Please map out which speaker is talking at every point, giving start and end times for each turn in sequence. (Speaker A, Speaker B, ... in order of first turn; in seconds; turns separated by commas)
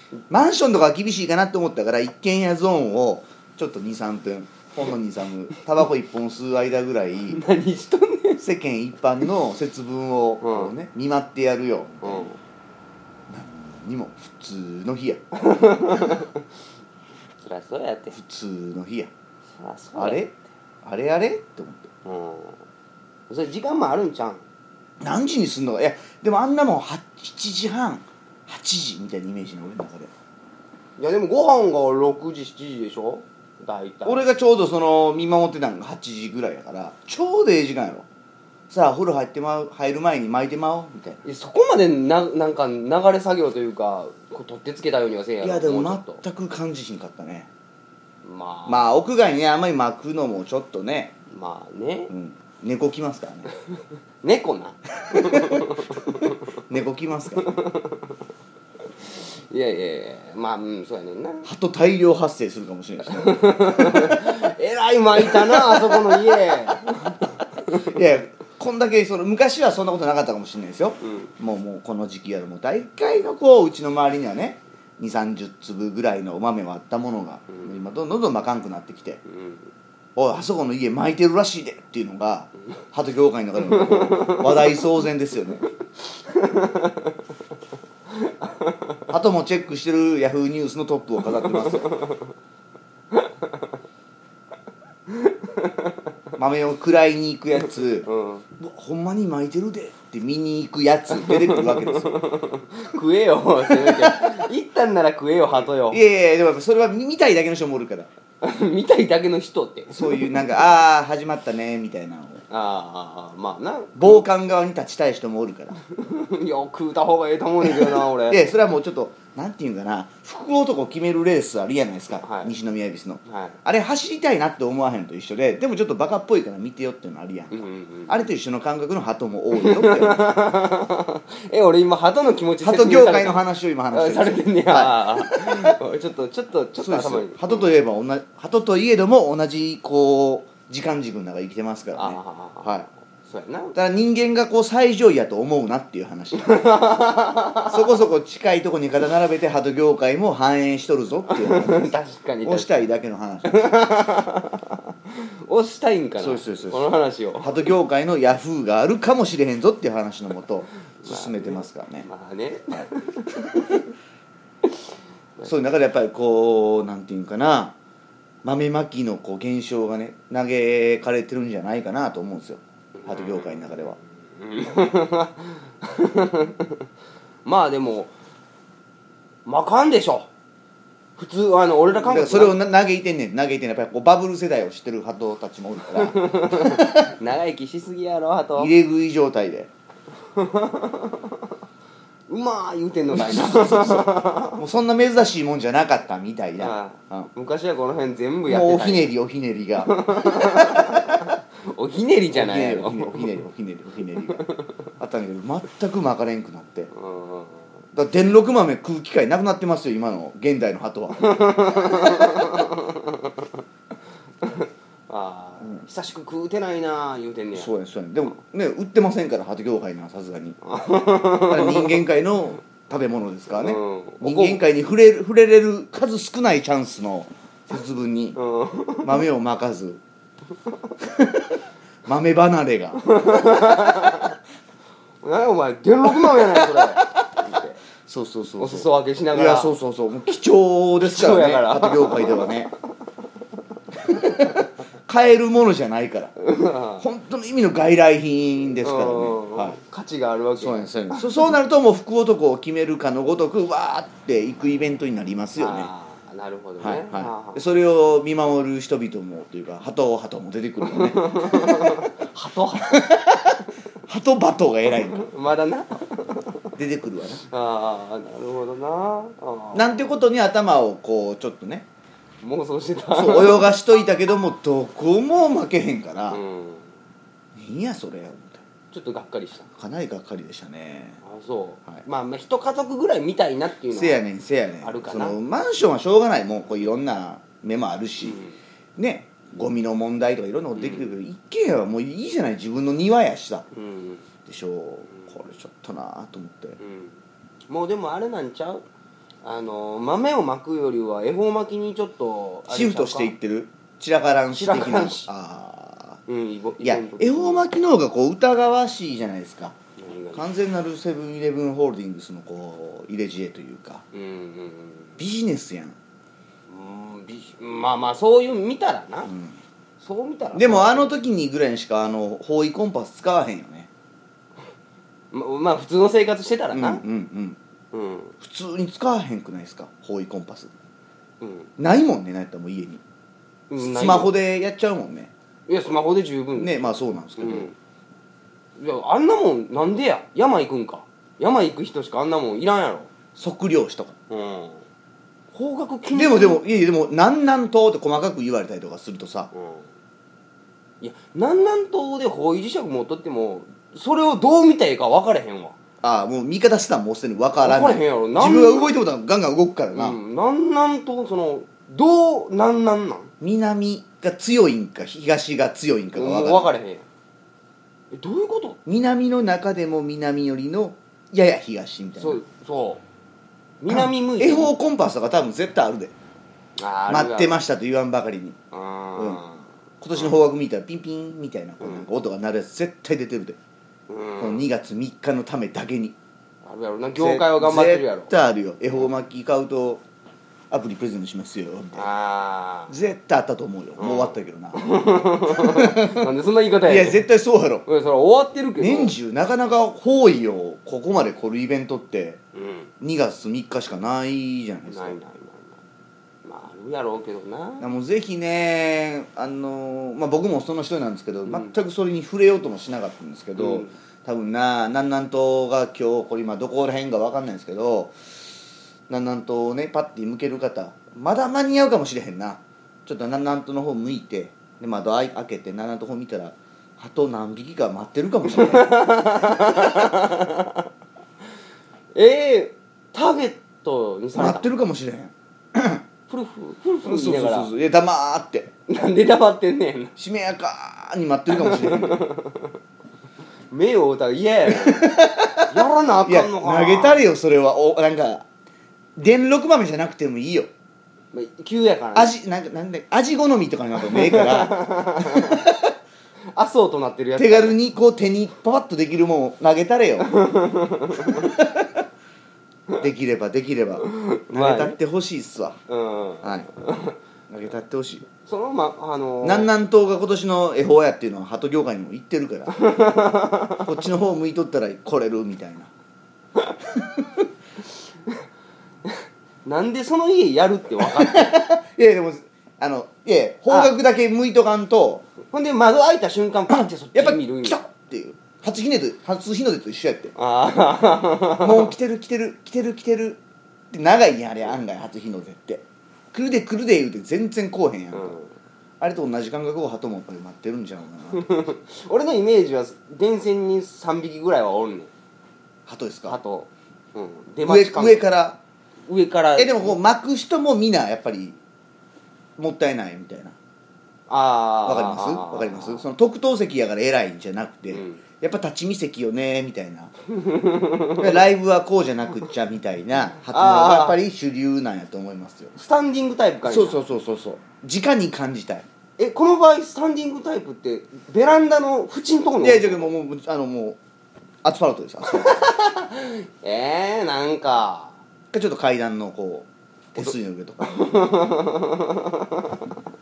Speaker A: 0.3-7.4, Speaker B: 7.3-8.4, Speaker A: 8.4-12.3, Speaker B: 10.4-10.7, Speaker B: 12.0-12.4, Speaker A: 13.3-15.2, Speaker B: 15.3-16.4, Speaker B: 17.4-18.2, Speaker A: 18.1-19.1, Speaker B: 19.6-20.3, Speaker A: 19.9-21.9, Speaker B: 22.0-22.6, Speaker B: 23.3-24.4, Speaker A: 25.0-30.1, Speaker B: 31.0-34.3, Speaker A: 34.0-38.0, Speaker A: 38.7-41.2, Speaker B: 41.2-46.2, Speaker A: 45.4-47.5, Speaker B: 48.2-48.9, Speaker A: 48.7-51.1, Speaker B: 51.3-52.1, Speaker A: 52.1-53.5, Speaker B: 54.2-56.4, Speaker A: 55.1-57.5, Speaker B: 57.4-58.1, Speaker B: 59.1-61.5, Speaker A: 61.4-64.3, Speaker B: 63.1-67.9, Speaker A: 65.2-66.5, Speaker A: 67.7-79.2, Speaker B: 71.0-71.3, Speaker B: 79.3-79.7, Speaker A: 80.1-85.6, Speaker B: 83.7-84.8, Speaker B: 86.2-87.2, Speaker B: 88.2-89.0, Speaker A: 89.1-91.9, Speaker B: 91.4-92.2, Speaker B: 93.1-93.5, Speaker B: 95.1-96.0, Speaker A: 96.4-102.3, Speaker B: 98.0-98.4, Speaker B: 101.2-106.0, Speaker A: 103.7-104.3, Speaker A: 105.9-108.1, Speaker B: 108.4-110.5, Speaker A: 109.9-112.4, Speaker B: 112.5-114.2, Speaker A: 114.0-115.8, Speaker B: 115.8-118.4, Speaker A: 117.6-130.3, Speaker B: 122.2-122.5, Speaker B: 123.2-123.5, Speaker B: 127.5-128.3, Speaker B: 129.5-137.7, Speaker A: 132.6-135.8, Speaker A: 136.8-142.9, Speaker B: 141.9-143.8, Speaker A: 143.7-146.6, Speaker B: 146.3-147.9, Speaker A: 147.7-153.8, Speaker B: 151.3-152.7, Speaker B: 153.4-157.6, Speaker A: 156.2-162.1, Speaker B: 161.0-163.7, Speaker A: 162.7-163.8, Speaker A: 165.4-167.8, Speaker A: 168.4-174.0, Speaker B: 173.0-176.8, Speaker B: 177.4-178.1, Speaker B: 179.4-180.3, Speaker B: 181.2-182.6, Speaker A: 181.9-187.1, Speaker B: 185.9-188.7, Speaker A: 188.6-189.7, Speaker B: 190.3-191.4, Speaker B: 192.3-194.6, Speaker A: 193.1-197.3, Speaker B: 196.6-199.1, Speaker A: 198.5-201.3, Speaker B: 199.8-203.3, Speaker A: 202.3-204.4, Speaker B: 204.4-204.7, Speaker A: 205.0-206.9, Speaker B: 206.9-207.7, Speaker A: 207.9-212.6, Speaker B: 211.2-213.5, Speaker B: 214.4-217.7, Speaker A: 217.5-220.6, Speaker B: 220.6-222.0, Speaker A: 221.4-228.4, Speaker B: 223.5-224.6, Speaker B: 228.3-229.2, Speaker A: 229.0-230.0, Speaker A: 231.0-233.0, Speaker B: 233.0-234.3, Speaker B: 235.2-237.8, Speaker A: 236.0-237.4, Speaker A: 238.0-242.7, Speaker B: 238.6-239.8, Speaker B: 241.0-242.7, Speaker A: 243.9-246.3, Speaker B: 246.4-247.0, Speaker A: 247.0-249.8, Speaker B: 248.8-251.5, Speaker A: 250.6-255.9, Speaker B: 255.6-257.7, Speaker A: 256.8-262.1, Speaker B: 260.8-263.0, Speaker A: 262.7-265.3, Speaker B: 265.1-266.7, Speaker A: 266.8-267.4, Speaker B: 267.5-270.1, Speaker A: 269.7-271.9, Speaker B: 272.4-273.7, Speaker A: 273.1-276.4, Speaker B: 276.3-276.9, Speaker A: 277.5-278.6, Speaker B: 278.9-279.7, Speaker A: 279.7-281.2, Speaker B: 281.2-284.2, Speaker A: 283.9-288.4, Speaker B: 284.8-285.4, Speaker B: 288.2-288.6, Speaker A: 289.0-293.6, Speaker B: 290.7-291.1, Speaker B: 293.7-294.2, Speaker A: 294.4-296.8, Speaker B: 296.8-297.2, Speaker B: 297.7-298.8, Speaker B: 299.4-303.3, Speaker A: 302.7-306.2, Speaker B: 304.5-305.3, Speaker B: 306.3-307.7, Speaker A: 306.8-309.8, Speaker B: 310.0-310.4, Speaker A: 310.3-314.0, Speaker B: 314.1-315.2, Speaker A: 315.2-315.9, Speaker B: 316.7-319.3, Speaker A: 319.3-319.6, Speaker B: 320.0-321.1, Speaker A: 320.5-323.9, Speaker B: 325.3-327.0, Speaker A: 326.7-327.6, Speaker B: 327.9-328.3, Speaker A: 328.4-330.7, Speaker B: 331.4-331.7, Speaker A: 331.8-333.0, Speaker B: 333.7-334.3, Speaker A: 333.8-335.3, Speaker B: 335.7-337.7, Speaker A: 336.6-337.7, Speaker B: 338.8-343.1, Speaker A: 343.4-344.1, Speaker B: 344.3-344.8, Speaker B: 345.5-346.6, Speaker A: 346.1-349.5, Speaker B: 349.5-349.9, Speaker B: 351.0-355.7, Speaker A: 356.0-360.2, Speaker B: 357.6-358.9, Speaker B: 359.9-363.3, Speaker A: 363.4-366.7, Speaker B: 366.1-367.0, Speaker B: 368.1-368.8, Speaker A: 368.9-372.4, Speaker B: 372.2-373.0, Speaker B: 373.8-374.7, Speaker A: 373.9-376.1, Speaker B: 376.8-377.6, Speaker A: 377.1-378.6, Speaker B: 378.7-380.4, Speaker A: 379.1-379.4, Speaker A: 380.0-383.6, Speaker B: 384.1-384.6, Speaker A: 384.4-386.1, Speaker B: 386.6-388.3, Speaker A: 387.1-390.0, Speaker A: 390.7-392.1, Speaker B: 391.9-392.9, Speaker A: 392.9-394.9, Speaker B: 394.0-397.2, Speaker A: 395.4-396.3, Speaker A: 396.8-397.8, Speaker B: 397.9-399.1, Speaker A: 398.8-402.4, Speaker B: 402.5-402.9, Speaker A: 403.0-405.2, Speaker B: 404.9-405.8, Speaker B: 406.4-407.9, Speaker A: 407.8-418.2, Speaker B: 411.4-411.7, Speaker B: 413.6-413.9, Speaker A: 419.1-430.0, Speaker B: 428.5-430.9, Speaker B: 432.1-434.7, Speaker A: 434.4-436.0, Speaker B: 436.3-437.7, Speaker A: 437.0-438.7, Speaker B: 438.9-440.1, Speaker A: 440.2-442.3, Speaker B: 441.5-442.7, Speaker B: 443.7-447.2, Speaker A: 444.7-448.4, Speaker A: 449.1-450.7, Speaker B: 451.3-452.3, Speaker A: 452.1-455.9, Speaker B: 454.1-455.6, Speaker B: 456.5-457.8, Speaker A: 457.4-460.3, Speaker B: 460.2-461.5, Speaker A: 461.2-462.0, Speaker A: 463.0-465.8, Speaker B: 464.1-465.0, Speaker B: 465.9-467.1, Speaker A: 466.4-466.7, Speaker A: 467.5-468.3, Speaker B: 468.4-469.7, Speaker A: 469.4-472.8, Speaker B: 472.8-473.9, Speaker A: 473.8-475.9, Speaker A: 476.8-477.5, Speaker B: 479.6-481.7, Speaker A: 481.0-485.2, Speaker B: 485.5-487.8, Speaker A: 486.7-490.3, Speaker B: 490.4-491.9, Speaker A: 491.6-498.4, Speaker B: 498.1-498.5, Speaker A: 499.0-501.6, Speaker B: 501.3-505.1, Speaker A: 505.9-506.4, Speaker B: 506.3-508.3, Speaker A: 507.6-508.6, Speaker B: 509.1-510.0, Speaker A: 509.6-511.6, Speaker A: 512.6-513.5, Speaker B: 514.3-516.0, Speaker A: 514.8-520.1, Speaker B: 517.9-518.2, Speaker B: 520.3-521.4, Speaker A: 521.2-525.7, Speaker B: 523.5-524.2, Speaker B: 525.7-527.0, Speaker A: 526.6-528.9, Speaker B: 529.2-533.1, Speaker A: 532.6-534.0, Speaker A: 534.6-535.7, Speaker B: 535.3-538.2, Speaker A: 538.5-540.8, Speaker B: 540.2-542.9